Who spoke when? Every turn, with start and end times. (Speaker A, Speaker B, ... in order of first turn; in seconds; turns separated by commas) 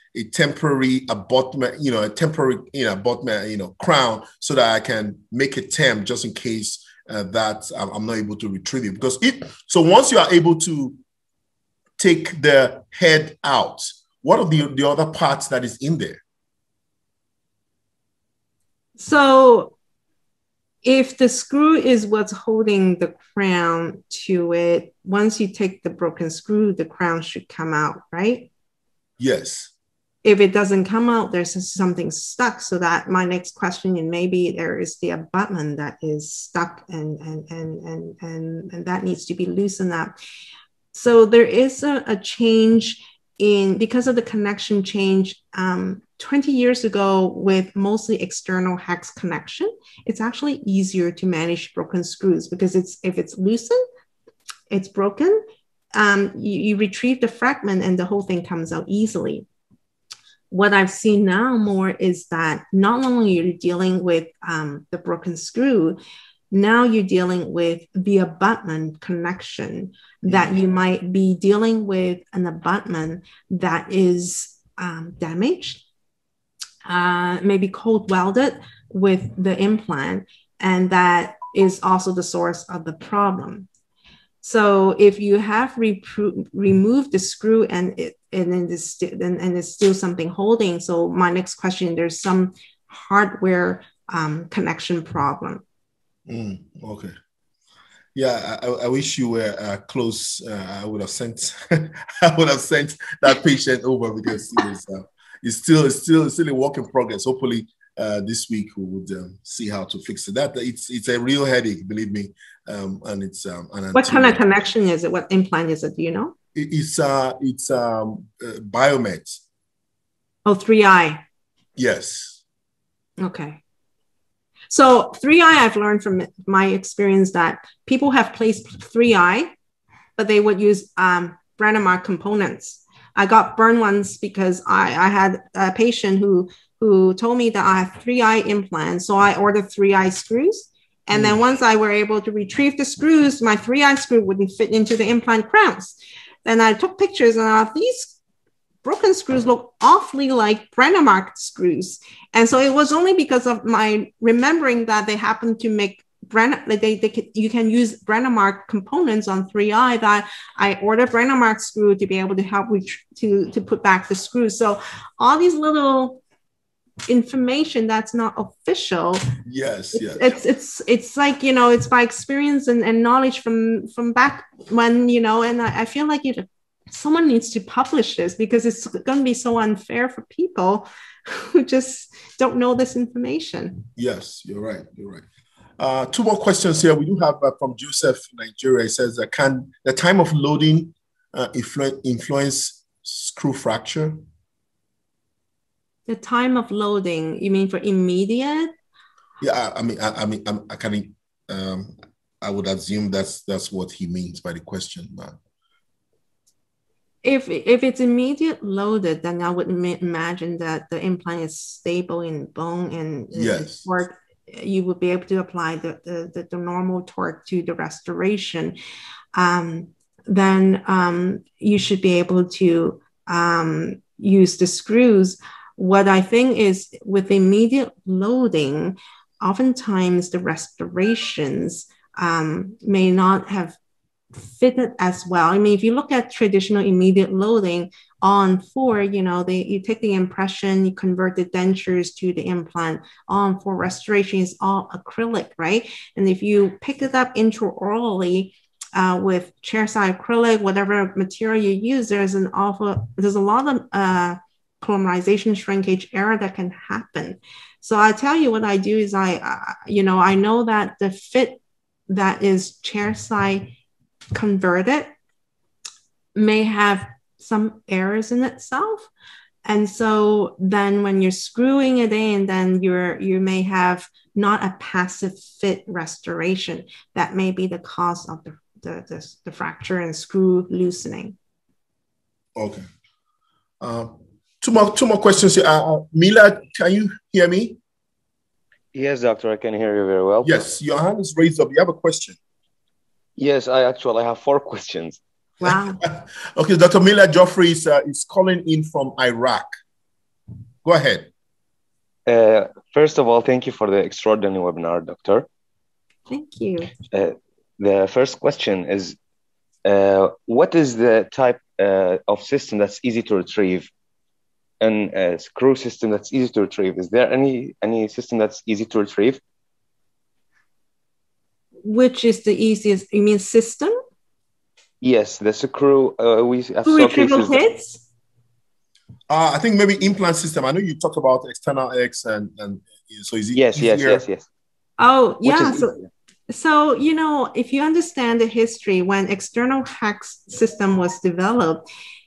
Speaker A: 0.1-11.0, Speaker A: 12.0-16.2, Speaker B: 19.0-19.7, Speaker B: 20.8-28.5, Speaker A: 29.2-29.7, Speaker B: 30.2-40.1, Speaker B: 40.9-53.8, Speaker B: 54.7-55.4, Speaker B: 55.9-59.5, Speaker B: 60.5-66.0, Speaker B: 66.5-75.8, Speaker B: 76.8-83.7, Speaker B: 84.4-95.6, Speaker A: 96.3-97.1, Speaker A: 98.1-114.4, Speaker B: 113.9-116.3, Speaker A: 116.5-119.4, Speaker B: 120.5-121.2, Speaker A: 121.8-122.4, Speaker B: 123.2-123.6, Speaker B: 124.7-129.5, Speaker B: 130.2-148.1, Speaker B: 148.8-166.2, Speaker B: 167.1-169.3, Speaker A: 169.4-170.4, Speaker B: 169.9-183.9, Speaker A: 183.9-185.2, Speaker A: 185.8-194.2, Speaker B: 196.1-198.7, Speaker A: 199.4-205.4, Speaker B: 207.2-218.8, Speaker A: 213.3-213.9, Speaker B: 219.3-233.8, Speaker B: 234.3-263.7, Speaker B: 264.3-265.1, Speaker B: 266.3-269.1, Speaker B: 269.6-281.4, Speaker A: 282.6-282.8, Speaker A: 283.8-287.8, Speaker C: 288.9-290.6, Speaker A: 290.4-292.4, Speaker C: 293.4-295.2, Speaker B: 295.6-296.0, Speaker A: 296.0-299.7, Speaker A: 300.8-301.3, Speaker C: 302.2-305.4, Speaker B: 306.3-306.9, Speaker C: 307.1-309.1, Speaker C: 309.8-313.9, Speaker C: 314.8-319.4, Speaker B: 321.8-323.9, Speaker C: 325.0-327.6, Speaker B: 326.9-328.0, Speaker A: 329.3-334.2, Speaker C: 333.5-334.4, Speaker B: 335.0-335.9, Speaker C: 335.4-336.1, Speaker B: 336.5-341.8